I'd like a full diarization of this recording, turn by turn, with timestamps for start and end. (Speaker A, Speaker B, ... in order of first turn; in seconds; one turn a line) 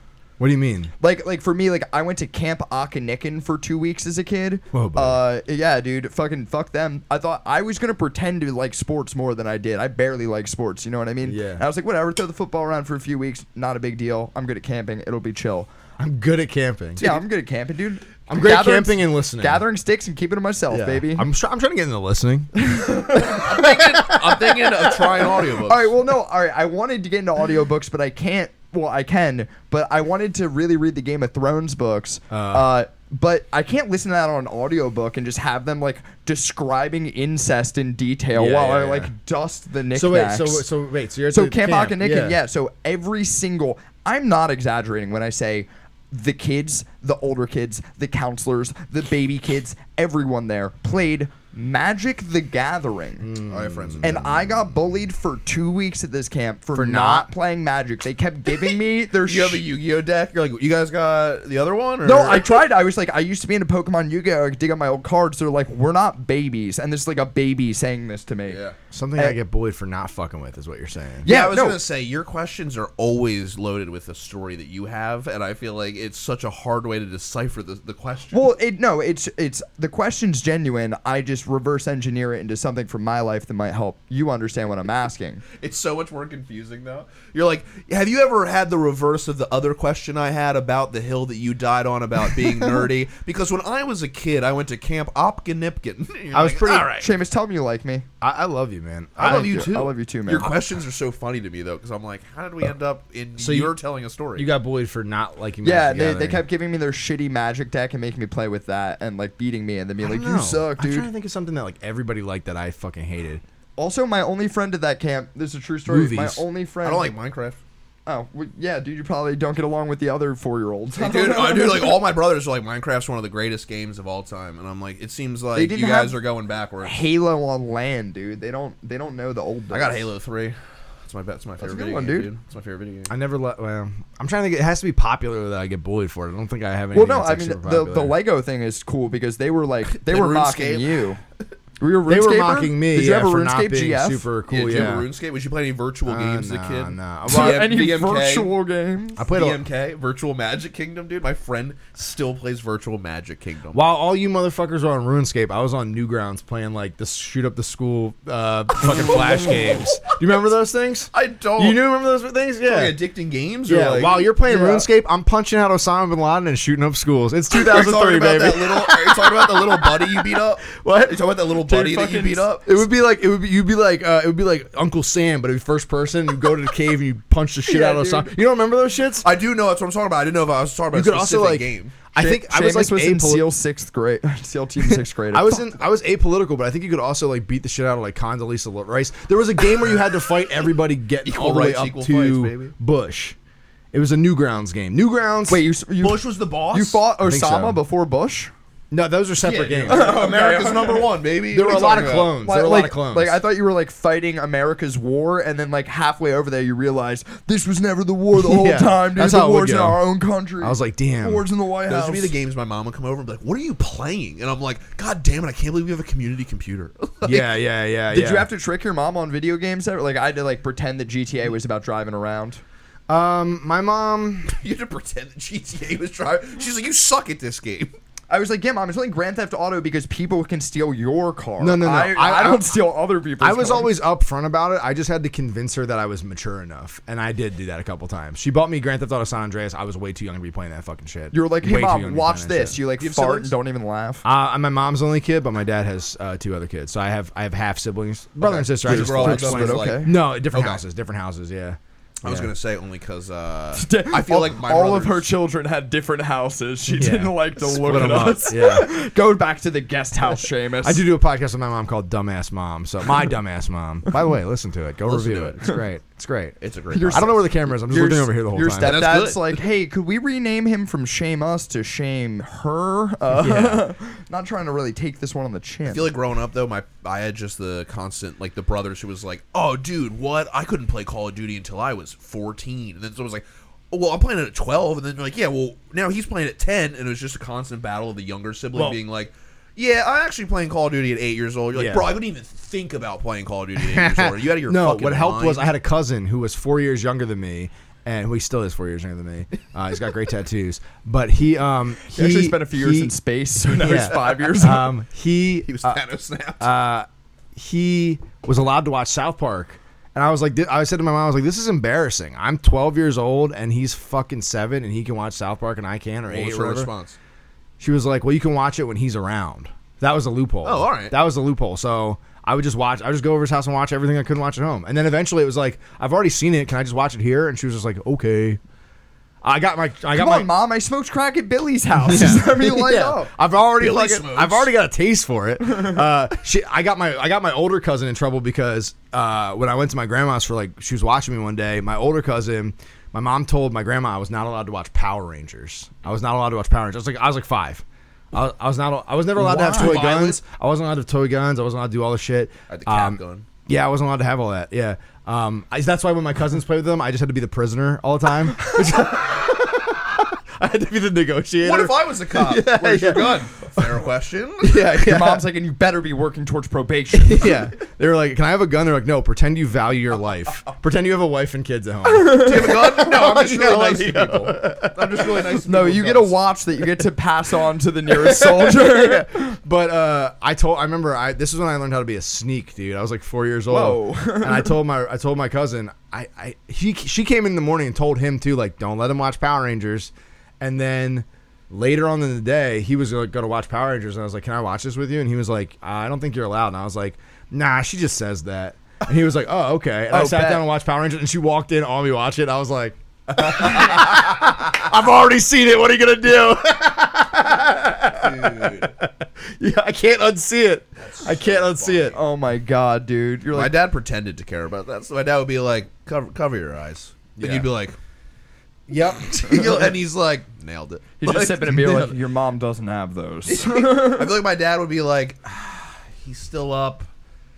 Speaker A: 0.4-0.9
Speaker B: 1.0-15.7
Speaker A: 4.7-5.2
Speaker A: 11.2-11.6
Speaker A: 16.0-17.0
Speaker B: 17.0-21.3
Speaker A: 18.3-19.6
Speaker A: 20.7-24.6
Speaker B: 22.6-23.6
Speaker C: 23.2-25.9
Speaker B: 25.6-40.7
Speaker A: 32.3-32.7
Speaker A: 38.3-39.1
Speaker A: 39.9-42.4
Speaker B: 41.3-53.3
Speaker A: 53.2-54.3
Speaker C: 53.5-54.2
Speaker B: 54.0-59.6
Speaker A: 56.8-57.3
Speaker C: 59.2-62.5
Speaker B: 62.0-68.6
Speaker C: 68.5-68.8
Speaker A: 68.9-71.3
Speaker B: 71.2-71.8
Speaker C: 71.2-78.5
Speaker B: 78.3-85.4
Speaker C: 85.6-97.1
Speaker A: 96.3-96.9
Speaker B: 97.0-98.1
Speaker A: 98.2-99.8
Speaker C: 99.2-104.5
Speaker B: 99.2-100.5
Speaker A: 103.4-103.7
Speaker A: 104.4-106.4
Speaker B: 105.6-111.1
Speaker A: 110.0-113.4
Speaker B: 113.8-117.1
Speaker A: 115.9-116.4
Speaker C: 116.8-117.6
Speaker B: 118.1-122.0
Speaker C: 120.9-127.0
Speaker B: 125.5-126.2
Speaker B: 126.8-130.1
Speaker C: 129.7-133.1
Speaker B: 131.6-132.3
Speaker A: 133.1-138.2
Speaker B: 136.9-141.2
Speaker C: 139.9-141.0
Speaker B: 141.8-144.3
Speaker A: 142.1-145.1
Speaker C: 144.5-148.5
Speaker A: 146.1-147.8
Speaker B: 147.3-149.2
Speaker A: 149.2-149.6
Speaker C: 149.3-153.8
Speaker A: 153.7-163.0
Speaker C: 159.1-160.0
Speaker C: 161.1-161.8
Speaker C: 162.6-164.6
Speaker A: 163.7-171.2
Speaker B: 164.5-164.8
Speaker C: 167.5-172.7
Speaker B: 171.7-172.5
Speaker A: 172.7-179.3
Speaker B: 177.7-178.3
Speaker C: 179.2-181.9
Speaker A: 180.9-183.5
Speaker B: 182.2-185.7
Speaker A: 184.8-193.4
Speaker C: 191.2-192.7
Speaker A: 193.9-195.6
Speaker B: 195.5-198.5
Speaker C: 196.0-197.1
Speaker A: 197.2-197.8
Speaker A: 198.9-200.2
Speaker C: 199.4-202.4
Speaker B: 199.9-201.1
Speaker A: 201.5-203.4
Speaker B: 201.7-212.3
Speaker A: 208.3-210.0
Speaker A: 210.6-211.4
Speaker C: 211.9-217.5
Speaker A: 217.2-218.5
Speaker B: 218.1-222.6
Speaker A: 223.1-224.5
Speaker C: 224.5-227.9
Speaker B: 228.3-233.9
Speaker A: 231.6-232.8
Speaker A: 233.4-242.8
Speaker B: 241.3-244.2
Speaker C: 243.0-243.5
Speaker A: 244.2-252.5
Speaker C: 248.4-250.8
Speaker B: 248.5-250.1
Speaker C: 252.2-255.3
Speaker B: 253.8-261.1
Speaker A: 256.9-258.9
Speaker A: 260.8-269.0
Speaker C: 265.1-265.8
Speaker C: 266.6-267.4
Speaker B: 266.9-276.1
Speaker C: 268.8-269.6
Speaker A: 273.3-273.9
Speaker C: 275.9-295.7
Speaker A: 291.7-292.2
Speaker A: 293.8-303.1
Speaker B: 302.1-304.9
Speaker A: 303.8-306.0
Speaker C: 304.1-304.4
Speaker C: 305.6-306.7
Speaker A: 306.6-316.9
Speaker C: 316.3-317.2
Speaker A: 317.8-328.6
Speaker C: 320.6-321.1
Speaker A: 329.4-330.5
Speaker B: 330.1-333.3
Speaker A: 332.1-364.0
Speaker C: 333.8-334.7
Speaker B: 349.4-350.1
Speaker C: 349.4-350.4
Speaker C: 352.7-353.5
Speaker C: 361.6-364.8
Speaker A: 364.6-365.4
Speaker B: 364.9-367.6
Speaker A: 367.1-375.3
Speaker B: 372.1-372.8
Speaker C: 372.3-376.4
Speaker B: 375.6-379.5
Speaker A: 378.1-412.2
Speaker B: 383.7-384.8
Speaker B: 400.1-400.7
Speaker C: 403.4-404.2
Speaker C: 408.1-408.9
Speaker C: 411.0-412.2
Speaker B: 412.1-413.8
Speaker C: 413.5-418.0
Speaker A: 417.4-417.7
Speaker A: 418.9-419.3
Speaker C: 418.9-422.1
Speaker B: 421.2-424.4
Speaker C: 423.5-427.1